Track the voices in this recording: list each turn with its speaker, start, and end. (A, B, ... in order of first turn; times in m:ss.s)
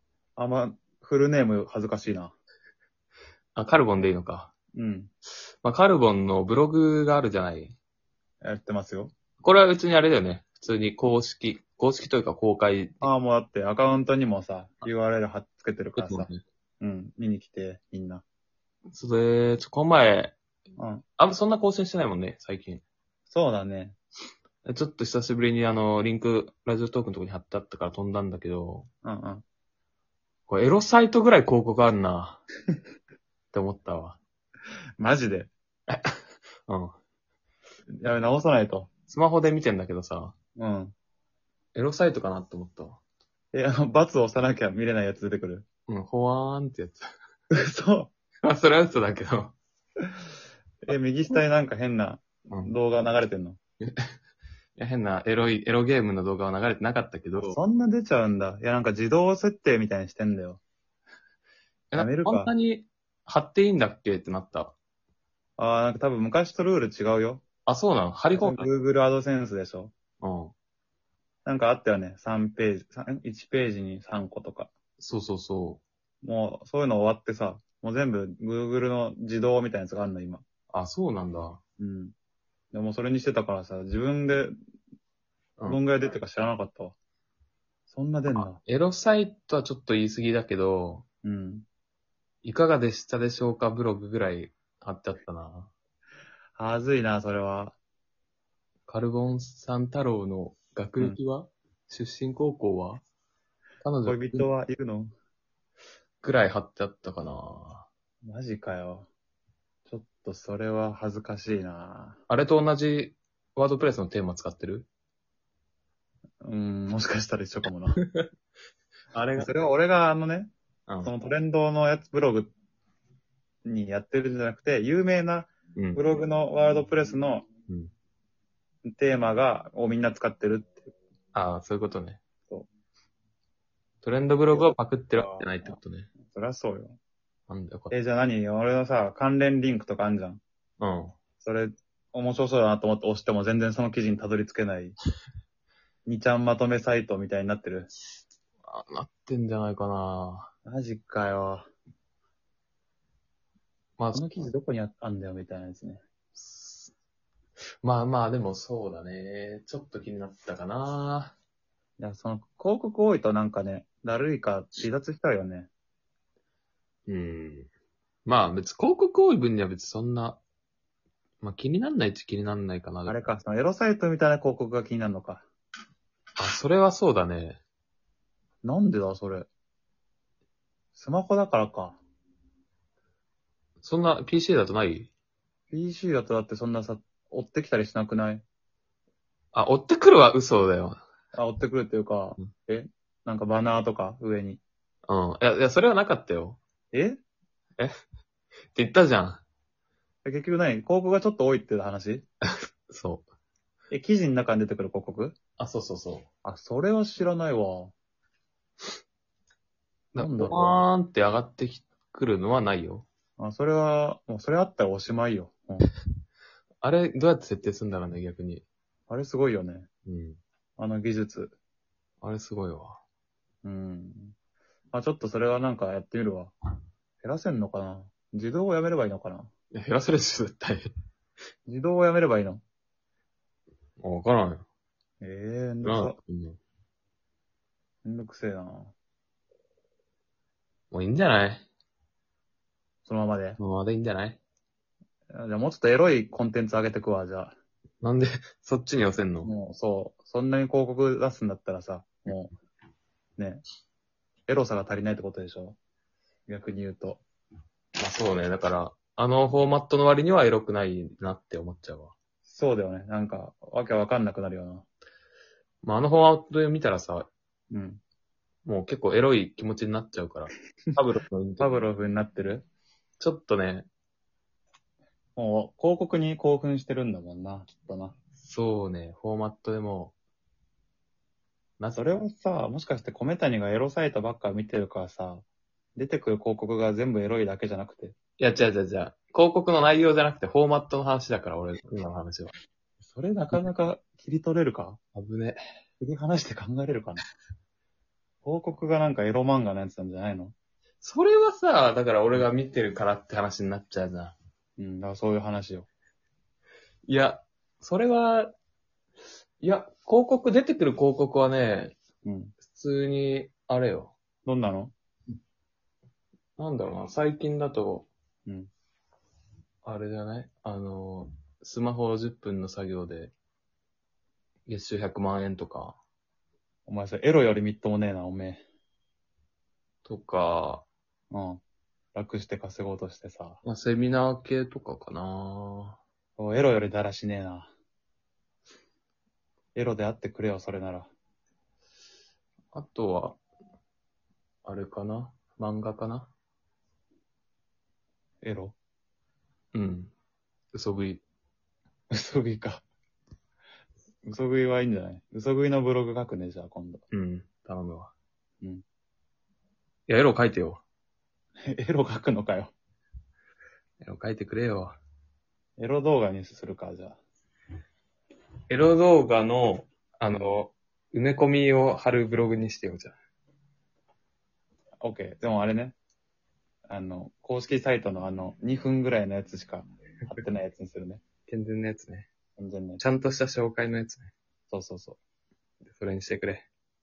0:00.4-0:02.4 A
0:03.6-0:04.5 B
0:04.7-0:05.1 A
0:05.6-0:07.8 B
0:08.4-0:09.1 A
0:09.4-0:13.1 B
0:13.0-0:16.3 A
0:16.0-0:16.4 B
0:16.8-0:18.2 A
0:18.9-0:20.4 B
0:20.8-0:21.0 A
0:21.2-0:22.8 B
0:23.3-0:24.0 A
0:24.6-0:28.9 B
0:29.0-0:29.4 A
0:30.5-0:32.4 B
0:33.5-0:34.2 B
0:35.0-0:35.5 A
0:35.9-0:37.0 B
0:37.9-0:38.9 A
0:39.1-0:40.3 B
0:40.6-0:40.9 A
0:41.8-0:43.0 B
0:43.5-0:45.7 A
0:45.9-0:47.1 B
0:47.6-0:48.1 A
0:48.4-0:49.6 B
0:50.9-0:53.6 A
0:53.8-0:54.1 B
0:54.8-0:57.6 B
0:57.4-1:00.6 A
1:01.9-1:04.8 B
1:02.0-1:02.5 A
1:05.6-1:07.4 A
1:07.7-1:08.7 B
1:08.3-1:09.9 A
1:10.2-1:10.5 B
1:11.5-1:14.7 A
1:15.0-1:15.8 B
1:16.2-1:20.4 A
1:20.7-1:21.6 B
1:21.8-1:22.1 A
1:22.7-1:24.6 A
1:25.7-1:27.0 A
1:27.9-1:28.6 A
1:28.3-1:31.0 B
1:31.2-1:31.7 A
1:32.4-1:35.7 B
1:36.6-1:37.8 A
1:38.9-1:43.0 B
1:43.8-1:44.5 B
1:44.1-1:45.1 A
1:46.2-1:47.9 B
1:48.2-1:49.1 A
1:49.9-1:52.2 A
1:52.3-1:54.9 B
1:56.4-1:58.0 A
1:58.0-1:58.3 B
1:59.1-1:59.5 B
1:59.4-2:00.5 A
2:01.0-2:02.5 A
2:03.6-2:07.5 A
2:05.8-2:06.1 B
2:08.9-2:10.9 A
2:11.3-2:12.2 B
2:14.0-2:16.1 B
2:14.5-2:15.5 A
2:16.3-2:17.0 A
2:17.5-2:17.9 B
2:17.9-2:20.4 A
2:20.8-2:21.1 B
2:21.4-2:25.0 A
2:26.1-2:27.9 A
2:28.7-2:30.5 B
2:30.6-2:31.7 A
2:34.0-2:34.2 B
2:34.1-2:36.0 A
2:36.4-2:36.9 B
2:37.8-2:41.4 B
2:42.0-2:45.7 A
2:47.1-2:47.7 B
2:48.3-2:50.4 B
2:51.4-2:53.3 B
2:53.1-2:55.5 A
2:56.4-2:57.6 B
2:58.6-2:59.5 A
3:01.0-3:02.0 A
3:03.8-3:05.1 B
3:05.7-3:08.4 A
3:09.5-3:11.0 B
3:11.3-3:14.6 A
3:15.1-3:16.6 B
3:16.9-3:17.2 A
3:18.7-3:19.4 B
3:20.2-3:22.3 A
3:22.9-3:23.3 B
3:23.9-3:25.4 A
3:25.6-3:26.3 B
3:26.4-3:27.9 A
3:30.1-3:33.1 B
3:30.2-3:30.9 A
3:33.4-3:35.9 A
3:36.8-3:38.6 B
3:39.1-3:39.9 A
3:40.1-3:40.4 B
3:40.8-3:41.6 A
3:42.2-3:43.0 B
3:43.6-3:44.4 A
3:44.9-3:46.5 A
3:47.2-3:49.5 A
3:49.7-3:50.9 B
3:51.7-3:52.6 A
3:54.0-3:54.6 B
3:55.2-3:56.2 A
3:55.8-3:56.6 B
3:58.0-3:58.9 A
4:00.9-4:01.7 B
4:03.1-4:03.6 A
4:03.6-4:04.4 B
4:05.3-4:07.6 A
4:08.0-4:09.5 B
4:09.4-4:12.5 A
4:13.4-4:13.6 A
4:14.5-4:15.8 A
4:16.5-4:17.2 A
4:18.0-4:22.1 B
4:22.5-4:24.8 A
4:25.8-4:27.3 B
4:27.7-4:28.0 A
4:28.6-4:31.9 B
4:31.6-4:32.7 A
4:33.2-4:33.9 B
4:35.4-4:38.2 A
4:38.4-4:40.1 B
4:41.8-4:42.1 B
4:42.0-4:45.4 A
4:46.0-4:48.2 A
4:48.4-4:52.5 B
4:53.0-4:55.0 A
4:55.2-4:55.6 B
4:56.0-4:57.2 A
4:58.4-5:00.5 A
5:01.0-5:04.4 B
5:04.8-5:05.9 A
5:07.1-5:08.5 B
5:09.6-5:12.0 B
5:12.2-5:12.5 A
5:12.7-5:14.2 B
5:14.4-5:14.9 A
5:16.6-5:18.1 B
5:18.5-5:18.7 A
5:19.8-5:23.3 B
5:24.7-5:26.0 B
5:26.9-5:28.6 A
5:30.0-5:30.9 B
5:31.3-5:31.6 A
5:32.2-5:33.6 A
5:33.6-5:36.0 B
5:36.4-5:37.7 A
5:39.8-5:41.1 A
5:42.7-5:43.4 B
5:44.6-5:46.3 B
5:48.4-5:48.8 A
5:49.7-5:50.1 B
5:50.7-5:51.2 B
5:52.1-5:52.8 A
5:54.2-5:57.0 A
5:57.1-5:58.1 B
6:00.1-6:00.8 B
6:01.7-6:02.7 A
6:04.0-6:05.0 B
6:05.8-6:07.2 A
6:08.7-6:13.2 B
6:15.0-6:16.0 A
6:16.9-6:21.2 A
6:21.5-6:22.3 B
6:22.6-6:23.0 A
6:23.0-6:24.3 B
6:24.7-6:25.2 A
6:25.9-6:26.7 B